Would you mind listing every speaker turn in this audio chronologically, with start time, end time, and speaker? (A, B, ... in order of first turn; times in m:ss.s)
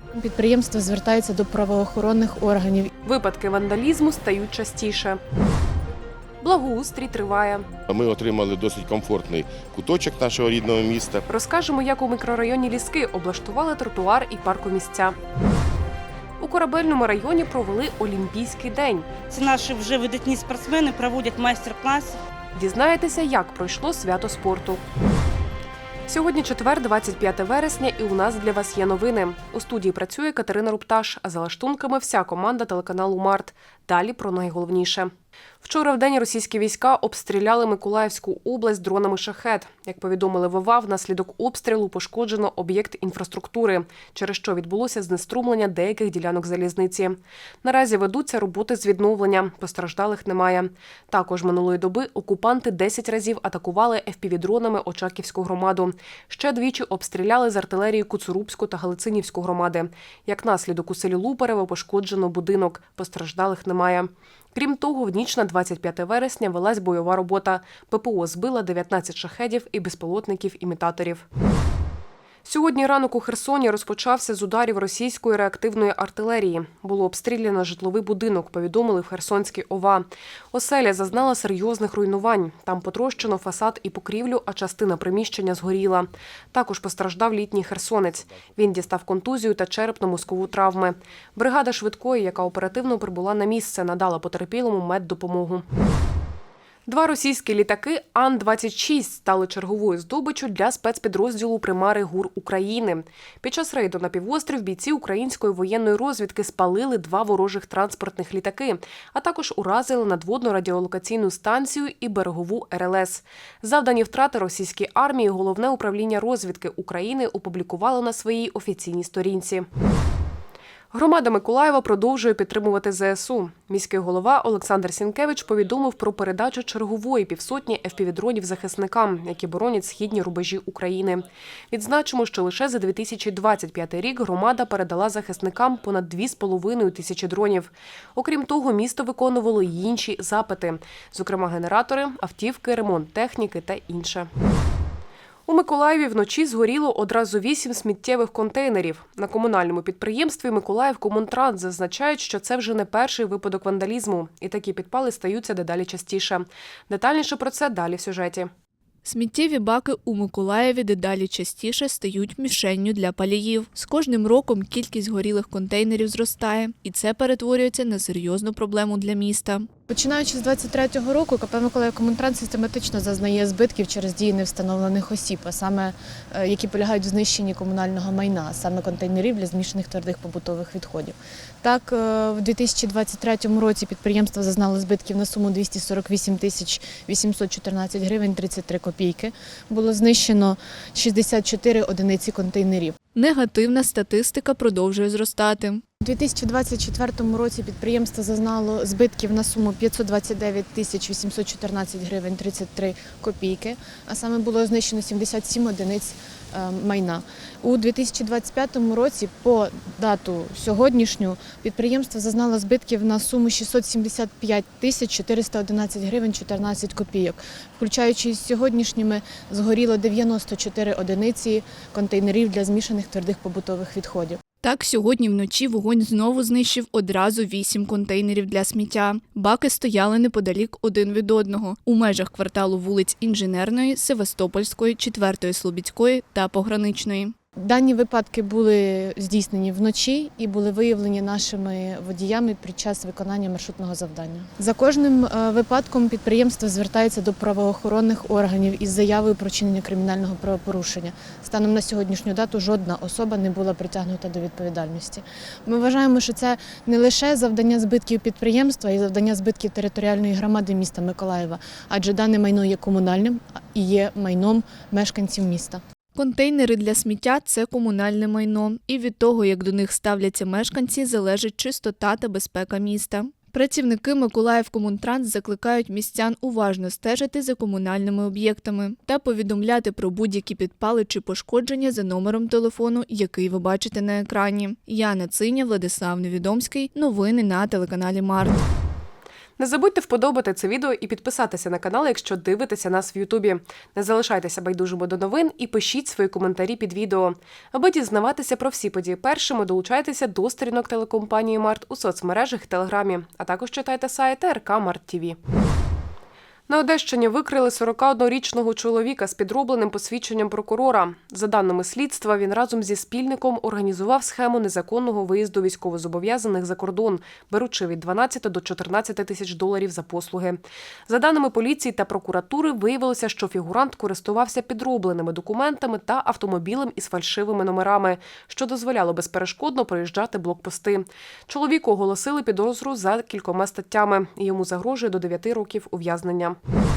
0:00.1-0:02.9 A
0:03.0-0:05.2 B
0:06.4-0:07.7 B
0:07.9-0:11.2 C
0:11.3-0:15.2 B
0:16.4-0:19.1 B
0:19.3-0:22.2 D
0:22.6-0:24.8 B
0:26.1-0:35.1 B
0:35.6-1:11.3 B
1:12.4-1:35.6 B
1:36.9-1:59.7 B
2:00.9-2:24.3 B
2:25.5-2:38.5 B
2:39.1-2:49.6 E
2:49.9-3:13.0 A
3:13.2-3:15.8 E
3:16.0-3:44.4 A
3:44.6-3:57.3 E
3:57.6-4:25.8 A
4:26.2-4:48.6 E
4:49.6-5:05.4 B
5:06.7-5:36.6 B